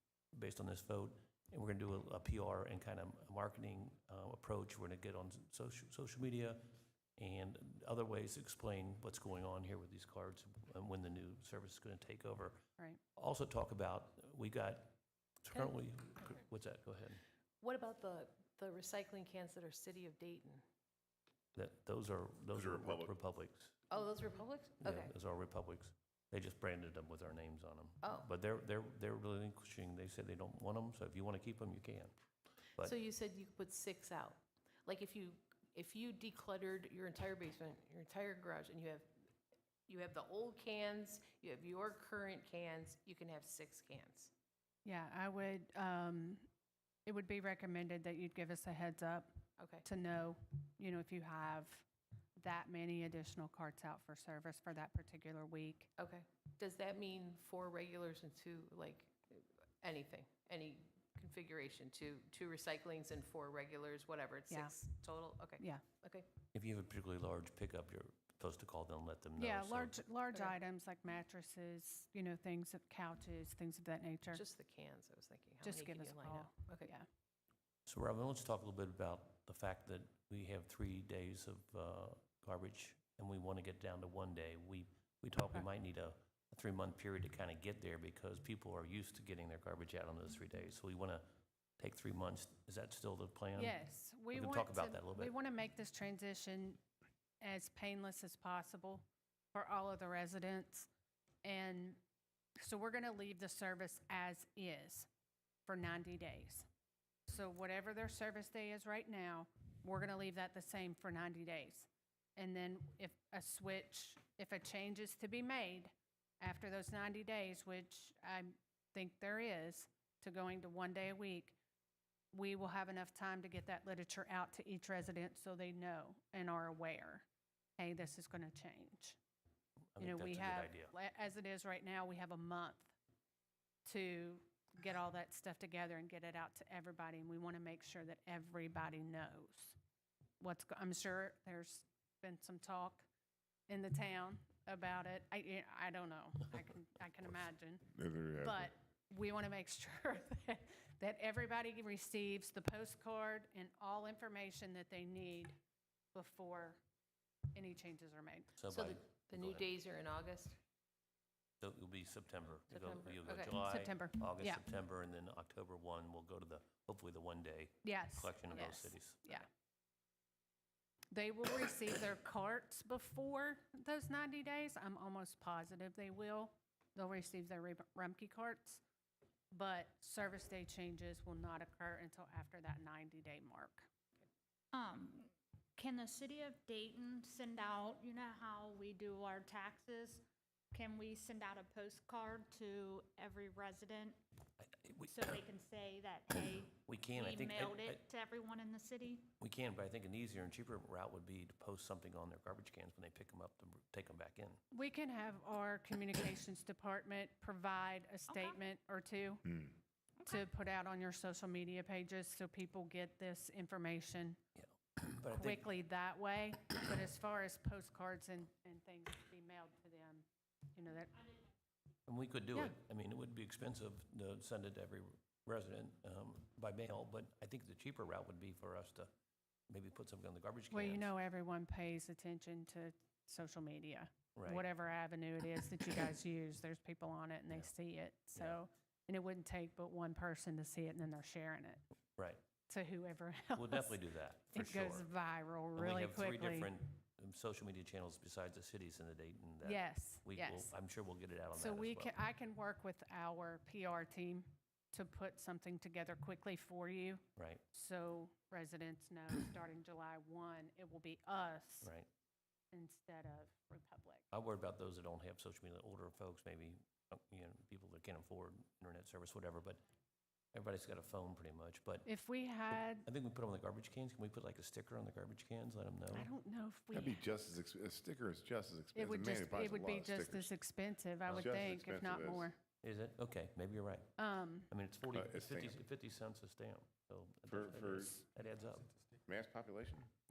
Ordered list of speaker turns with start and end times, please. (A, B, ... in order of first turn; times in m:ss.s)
0:00.3-0:06.6 A
0:07.2-0:12.6 A
0:13.2-0:17.2 A
0:17.6-0:20.6 B
0:21.5-0:23.8 A
0:22.5-0:23.1 C
0:23.9-0:25.1 B
0:24.8-0:32.1 A
0:28.0-0:28.3 B
0:32.8-0:39.1 B
0:39.9-0:44.3 B
0:44.8-0:46.5 D
0:47.0-0:51.8 D
0:49.6-0:49.8 B
0:52.4-0:55.9 D
0:56.0-1:06.2 B
1:04.5-1:04.8 D
1:05.6-1:05.8 D
1:06.5-1:10.0 A
1:09.4-1:14.4 D
1:14.3-1:16.9 B
1:15.6-1:17.1 D
1:17.8-1:31.3 A
1:31.8-1:33.8 A
1:33.6-1:36.8 D
1:34.3-1:35.3 A
1:37.4-1:40.9 D
1:41.4-1:42.0 D
1:42.6-1:45.1 D
1:45.6-1:46.7 D
1:47.3-2:01.6 D
2:02.3-2:07.2 D
2:07.8-2:09.2 D
2:09.9-2:10.9 A
2:10.0-2:12.9 D
2:13.8-2:19.8 D
2:20.4-2:23.1 D
2:23.7-2:27.9 D
2:27.9-2:28.7 C
2:28.4-2:35.6 D
2:36.1-2:36.8 D
2:37.5-2:38.5 D
2:38.6-2:39.6 A
2:38.7-2:40.6 B
2:41.6-2:49.4 A
2:42.7-2:43.6 B
2:43.5-2:44.6 D
2:47.8-2:49.5 D
2:51.1-2:58.8 D
2:59.5-3:03.9 D
3:04.7-3:14.2 E
3:14.6-3:15.4 A
3:15.1-3:19.3 E
3:16.8-3:18.0 A
3:19.4-3:24.6 A
3:24.7-3:29.7 D
3:28.3-3:28.6 E
3:30.2-3:34.4 D
3:34.6-3:35.7 A
3:35.3-3:41.3 D
3:42.0-3:49.1 A
3:49.7-3:51.1 A
3:50.7-4:01.8 D
3:54.3-3:54.7 A
4:02.2-4:02.4 A
4:02.7-4:04.0 D
4:03.5-4:05.1 A
4:04.5-4:06.8 D
4:05.8-4:12.1 A
4:09.6-4:10.7 D
4:11.5-4:21.9 D
4:17.4-4:17.6 A
4:21.8-4:22.1 A
4:22.7-4:24.2 D
4:24.3-4:29.8 A
4:30.5-4:32.1 A
4:32.0-4:33.0 D
4:32.7-4:36.3 A
4:36.1-4:37.2 D
4:36.9-4:40.6 C
4:38.9-4:42.6 D
4:41.3-4:42.5 C
4:42.8-4:44.1 A
4:44.2-4:44.7 D
4:44.7-4:48.9 A
4:45.1-4:45.8 C
4:47.5-4:48.2 C
4:49.2-4:50.1 C